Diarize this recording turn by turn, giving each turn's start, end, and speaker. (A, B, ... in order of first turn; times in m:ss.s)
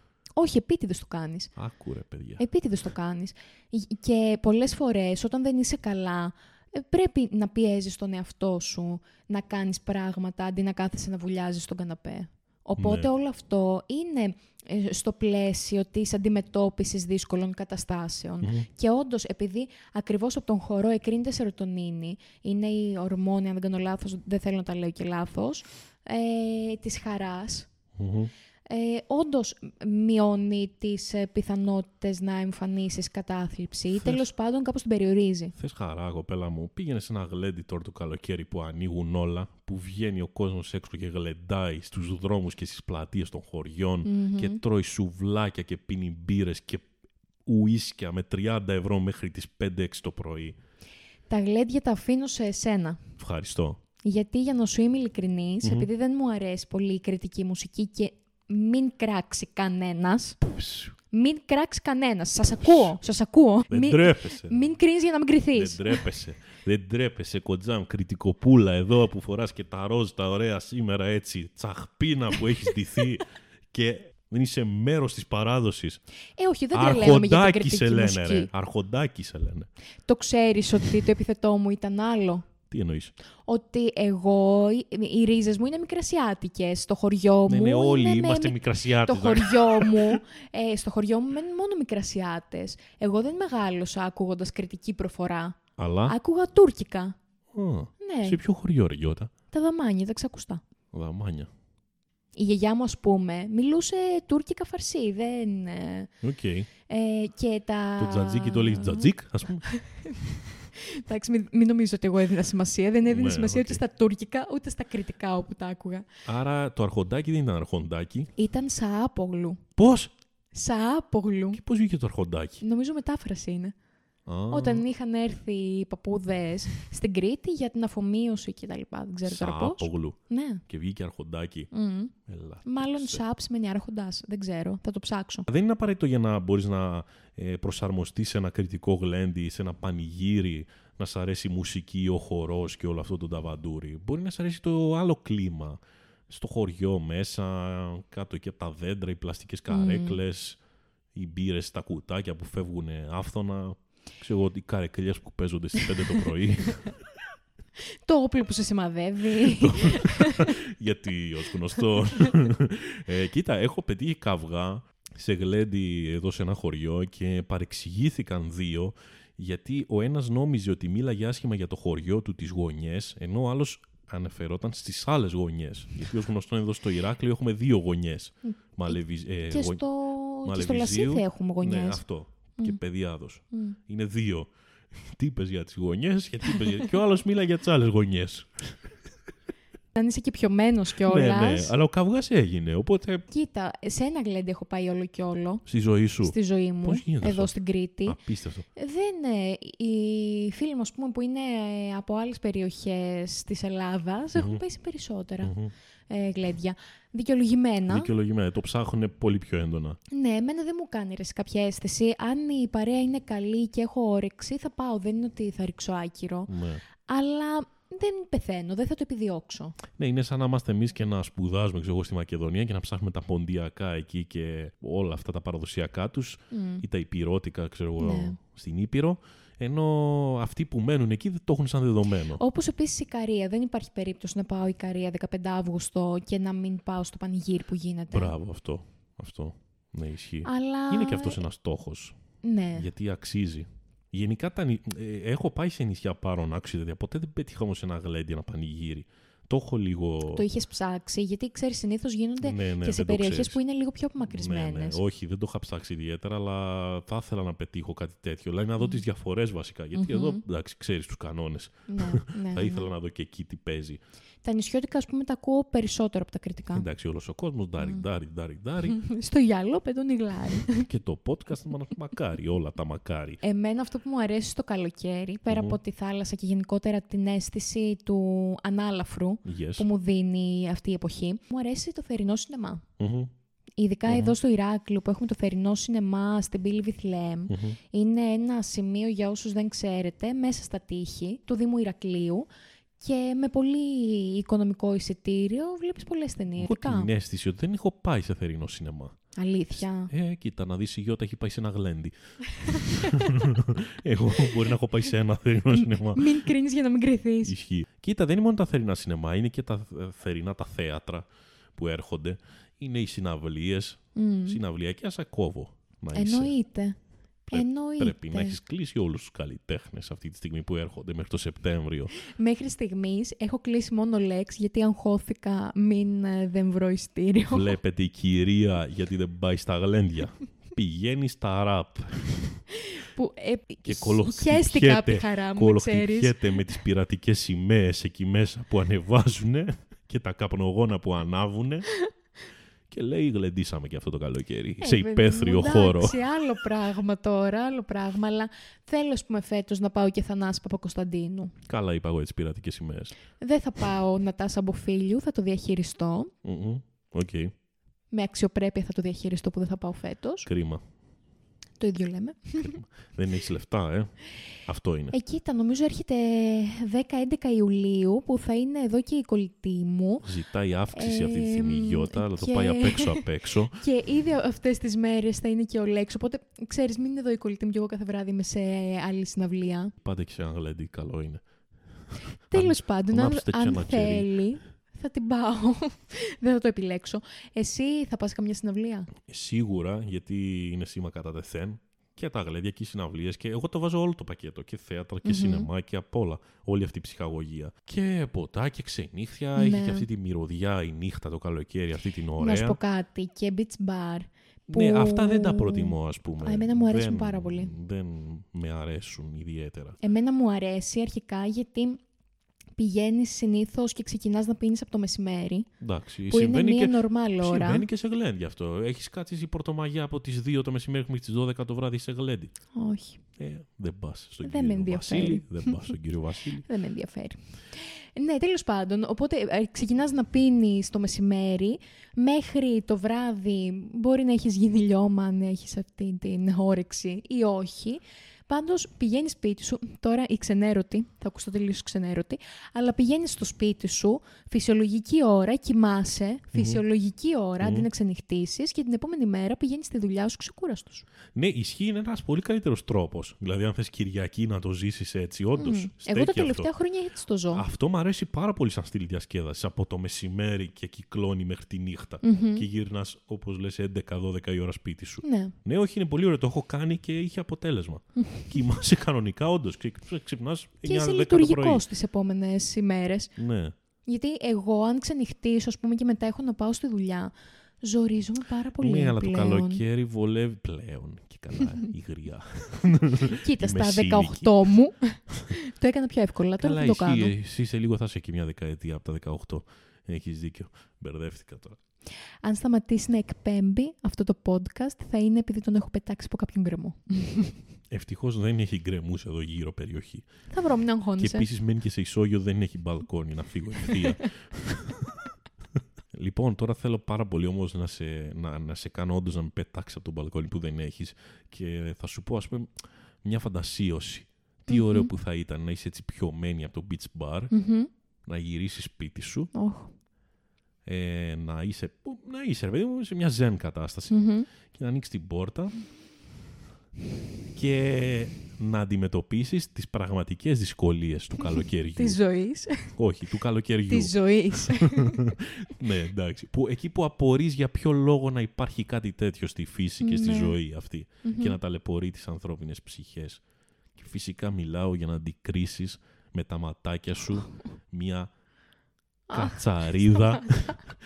0:00.4-0:01.5 A
0:01.6-0:02.4 B
0:02.4-0:27.7 A
0:12.8-0:13.1 B
0:18.4-0:18.7 B
0:28.0-0:28.3 B
0:28.7-0:35.5 A
0:35.6-0:46.9 B
0:44.0-0:44.6 A
0:47.4-0:50.6 B
0:51.3-0:53.0 A
0:53.2-0:53.8 B
0:54.0-1:00.4 A
0:55.6-0:55.9 B
1:00.4-1:00.9 B
1:01.1-1:06.0 A
1:03.7-1:04.6 B
1:05.5-1:16.0 B
1:16.4-1:18.5 A
1:16.7-1:19.7 B
1:20.0-1:22.5 A
1:22.7-1:23.1 B
1:23.4-1:37.2 A
1:27.5-1:30.2 B
1:35.8-1:36.2 B
1:37.5-1:39.3 B
1:38.0-1:38.4 A
1:39.5-1:40.6 A
1:40.9-1:41.5 B
1:42.3-1:46.1 A
1:46.2-1:46.7 B
1:46.9-1:49.1 A
1:48.0-1:49.6 B
1:49.6-1:56.1 A
1:53.1-1:53.8 B
1:56.2-1:58.3 B
1:58.4-1:59.6 A
1:59.8-2:00.1 B
2:00.5-2:01.6 A
2:01.5-2:02.6 B
2:02.6-2:03.7 A
2:04.2-2:04.8 B
2:04.5-2:10.6 A
2:09.2-2:10.2 B
2:10.7-2:11.7 B
2:11.7-2:12.1 A
2:12.2-2:13.2 B
2:12.6-2:15.5 A
2:15.5-2:30.6 B
2:29.7-2:30.2 A
2:31.1-2:36.9 B
2:38.0-2:40.6 A
2:39.4-2:59.8 B
2:59.5-3:02.0 A
3:00.4-3:08.8 B
3:03.5-3:03.8 A
3:10.0-3:11.7 A
3:11.0-3:13.2 B
3:13.3-3:15.6 A
3:15.6-3:17.5 B
3:16.2-3:18.2 A
3:18.0-3:18.7 B
3:18.8-3:25.6 A
3:24.3-3:24.6 B
3:25.4-3:25.7 B
3:26.1-3:28.1 A
3:27.9-3:30.0 B
3:30.1-3:36.5 A
3:36.5-3:36.8 B
3:37.0-3:39.8 A
3:40.0-3:52.4 B
3:46.5-3:46.8 A
3:48.0-3:48.4 A
3:52.4-3:58.3 A
3:58.1-4:02.2 B
4:00.4-4:01.4 A
4:02.4-4:02.9 A
4:02.7-4:10.4 B
4:10.3-4:15.0 A
4:12.4-4:13.6 B
4:14.3-4:24.0 B
4:19.9-4:20.4 A
4:21.9-4:22.9 A
4:24.4-4:26.8 A
4:26.7-4:29.0 B
4:27.8-4:28.0 A
4:28.8-4:30.9 A
4:30.8-4:33.4 B
4:33.4-4:42.8 A
4:35.5-4:35.8 B
4:39.4-4:39.9 B
4:43.0-4:43.3 B
4:43.8-4:52.5 A
4:44.1-4:44.4 B
4:47.5-4:47.8 B
4:53.0-4:57.1 A
4:56.6-4:59.2 B
4:59.4-5:00.1 A
5:00.1-5:06.4 B
5:02.5-5:03.5 A
5:05.7-5:07.5 A
5:07.4-5:16.5 B
5:14.1-5:14.6 A
5:16.1-5:17.0 A
5:17.5-5:22.1 B
5:17.5-5:18.6 A
5:22.2-5:27.8 A
5:27.5-5:32.6 B
5:32.7-5:36.6 A
5:33.8-5:41.9 B
5:42.9-5:46.2 B
5:44.8-5:51.5 A
5:51.7-5:53.1 B
5:53.4-5:56.3 A
5:56.4-5:57.5 B
5:58.1-6:00.5 A
6:00.4-6:00.8 B
6:01.8-6:02.8 A
6:02.6-6:04.1 B
6:04.6-6:05.2 B
6:05.1-6:10.3 A
6:10.2-6:13.8 B
6:10.9-6:19.9 A
6:20.0-6:21.4 B
6:22.1-6:24.3 B
6:22.5-6:29.1 A
6:29.2-6:42.8 B
6:35.2-6:35.7 A
6:39.6-6:40.0 A
6:42.4-6:47.7 A
6:44.7-6:50.0 B
6:50.0-6:52.0 A
6:52.8-6:55.7 A
6:55.8-7:02.5 B
6:56.3-6:57.8 A
7:02.7-7:03.2 A
7:03.4-7:06.6 B
7:04.4-7:05.9 A
7:06.6-7:31.1 A
7:26.5-7:26.8 B
7:27.6-7:27.9 B
7:31.3-7:36.7 B
7:35.6-7:37.6 A
7:37.5-7:51.8 B
7:42.2-7:42.6 A
7:45.2-7:45.5 A
7:48.2-7:48.5 A
7:50.8-7:53.3 A
7:53.4-7:53.7 B
7:54.0-7:59.8 A
7:58.8-8:04.6 B
8:03.2-8:07.3 A
8:06.6-8:11.8 B
8:12.4-8:17.5 A
8:17.9-8:20.2 B
8:20.5-8:21.5 A
8:21.2-8:25.3 B
8:23.9-8:24.2 A
8:26.1-8:37.5 B
8:34.7-8:35.1 A
8:37.5-8:37.9 A
8:38.2-8:39.5 B
8:39.5-8:39.9 A
8:40.8-8:44.2 B
8:44.1-8:44.5 A
8:44.7-8:45.7 B
8:47.5-8:52.2 B
8:51.4-8:52.9 A
8:52.9-9:03.4 B
8:53.9-8:55.4 A
9:00.0-9:00.6 A
9:01.2-9:01.6 A
9:04.0-9:08.3 B
9:09.3-9:10.8 A
9:09.3-9:10.9 B